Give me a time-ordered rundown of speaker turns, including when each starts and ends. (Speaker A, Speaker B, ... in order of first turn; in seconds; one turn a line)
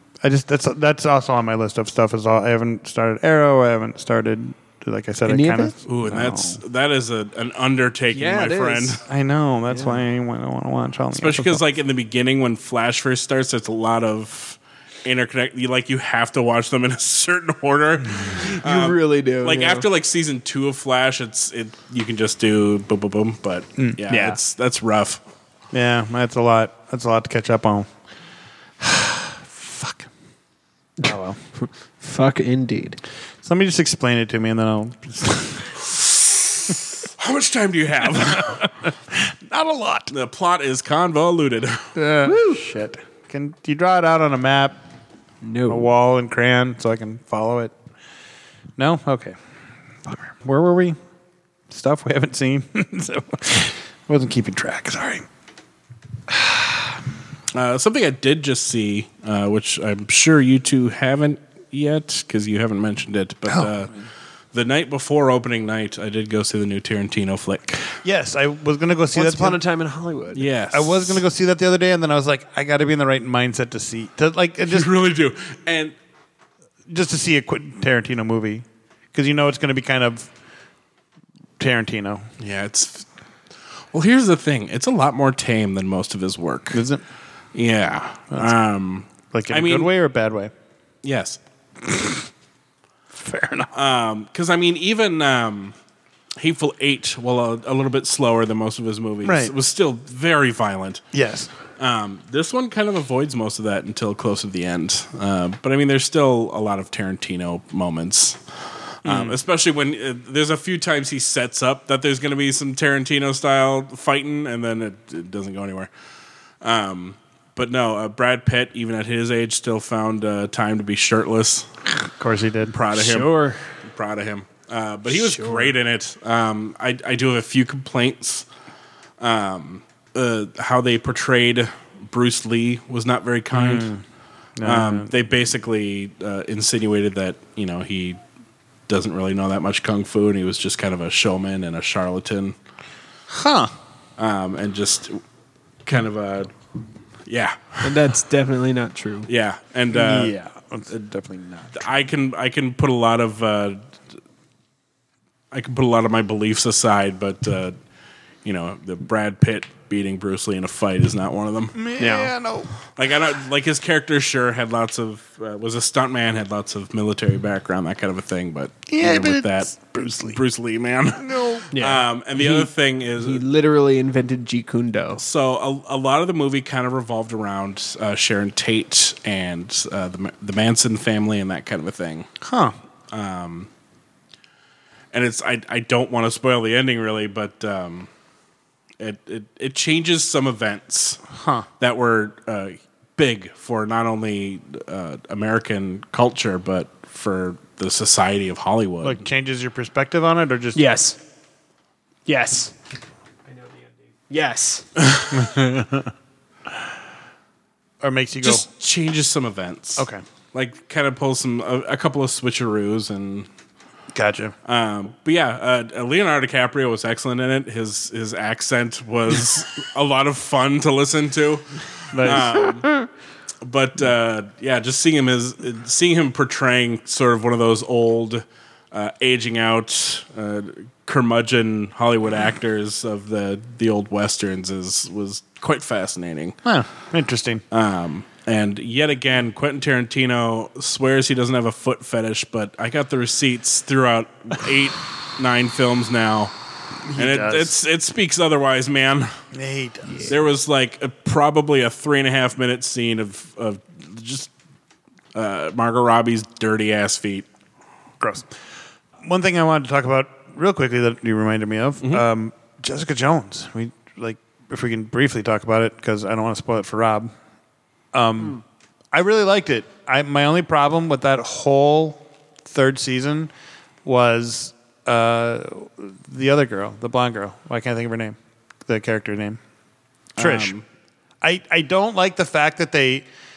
Speaker A: 0.2-6.6
Speaker B: 5.3-5.7
Speaker C: 5.8-9.0
Speaker B: 8.1-9.0
Speaker A: 9.0-11.6
Speaker B: 9.7-10.0
Speaker C: 11.1-25.2
Speaker B: 18.3-19.9
Speaker A: 23.8-24.4
Speaker A: 25.7-27.9
Speaker A: 28.8-30.1
Speaker A: 31.0-31.4
Speaker B: 31.0-33.0
Speaker A: 33.4-35.7
Speaker C: 35.8-38.7
Speaker A: 38.3-40.1
Speaker C: 40.1-41.9
Speaker A: 41.9-44.8
Speaker B: 42.2-42.6
Speaker B: 45.4-45.9
Speaker A: 45.7-47.7
Speaker A: 48.8-49.4
Speaker A: 50.1-51.0
Speaker A: 51.7-55.2
Speaker A: 56.3-57.0
Speaker C: 57.5-68.0
Speaker A: 68.0-69.6
Speaker B: 69.1-70.4
Speaker C: 70.3-71.2
Speaker A: 70.7-74.9
Speaker C: 74.7-75.9
Speaker A: 76.9-80.3
Speaker A: 81.6-82.3
Speaker C: 82.4-83.1
Speaker C: 83.9-86.8
Speaker A: 86.7-87.0
Speaker C: 87.5-89.9
Speaker A: 89.3-90.5
Speaker C: 91.0-91.4
Speaker A: 91.8-92.2
Speaker A: 93.1-93.7
Speaker C: 93.7-95.8
Speaker C: 96.4-101.0
Speaker A: 99.2-99.5
Speaker A: 101.1-101.5
Speaker C: 101.8-108.4
Speaker C: 109.0-115.9
Speaker A: 109.0-109.4
Speaker C: 116.6-121.7
Speaker A: 122.2-122.7
Speaker C: 122.7-123.3
Speaker B: 122.9-123.6
Speaker C: 123.8-128.4
Speaker B: 125.1-125.7
Speaker C: 129.2-133.9
Speaker A: 133.5-134.0
Speaker A: 134.6-135.1
Speaker C: 134.6-138.2
Speaker C: 138.9-142.6
Speaker A: 143.3-143.7
Speaker C: 144.2-145.2
Speaker C: 145.8-146.5
Speaker C: 147.2-148.0
Speaker B: 147.8-149.3
Speaker C: 149.3-150.3
Speaker A: 149.9-152.0
Speaker C: 151.7-153.9
Speaker C: 155.5-157.8
Speaker C: 158.4-161.8
Speaker A: 161.7-162.7
Speaker B: 162.0-162.3
Speaker C: 162.9-173.4
Speaker A: 168.9-170.4
Speaker A: 171.2-171.7
Speaker B: 171.7-175.2
Speaker C: 175.2-182.3
Speaker A: 182.4-182.8
Speaker C: 183.1-183.7
Speaker C: 185.1-188.1
Speaker C: 189.0-191.2
Speaker A: 191.3-191.7
Speaker C: 191.8-199.2
Speaker A: 199.0-200.8
Speaker B: 200.7-201.2
Speaker B: 202.2-202.7
Speaker B: 203.5-204.8
Speaker A: 205.3-206.1
Speaker A: 208.0-208.6
Speaker C: 208.4-213.5
Speaker A: 210.0-210.2
Speaker A: 214.1-214.5
Speaker C: 214.6-223.0
Speaker A: 222.1-222.5
Speaker C: 223.6-236.6
Speaker A: 236.6-237.6
Speaker C: 237.7-246.5
Speaker C: 247.1-249.3
Speaker A: 247.1-247.7
Speaker A: 249.5-250.3
Speaker C: 250.3-254.5
Speaker C: 255.3-257.5
Speaker A: 258.2-258.5
Speaker A: 259.2-267.3
Speaker A: 268.1-273.5
Speaker A: 274.0-279.6
Speaker C: 280.4-280.8
Speaker A: 280.4-280.8
Speaker A: 281.4-283.2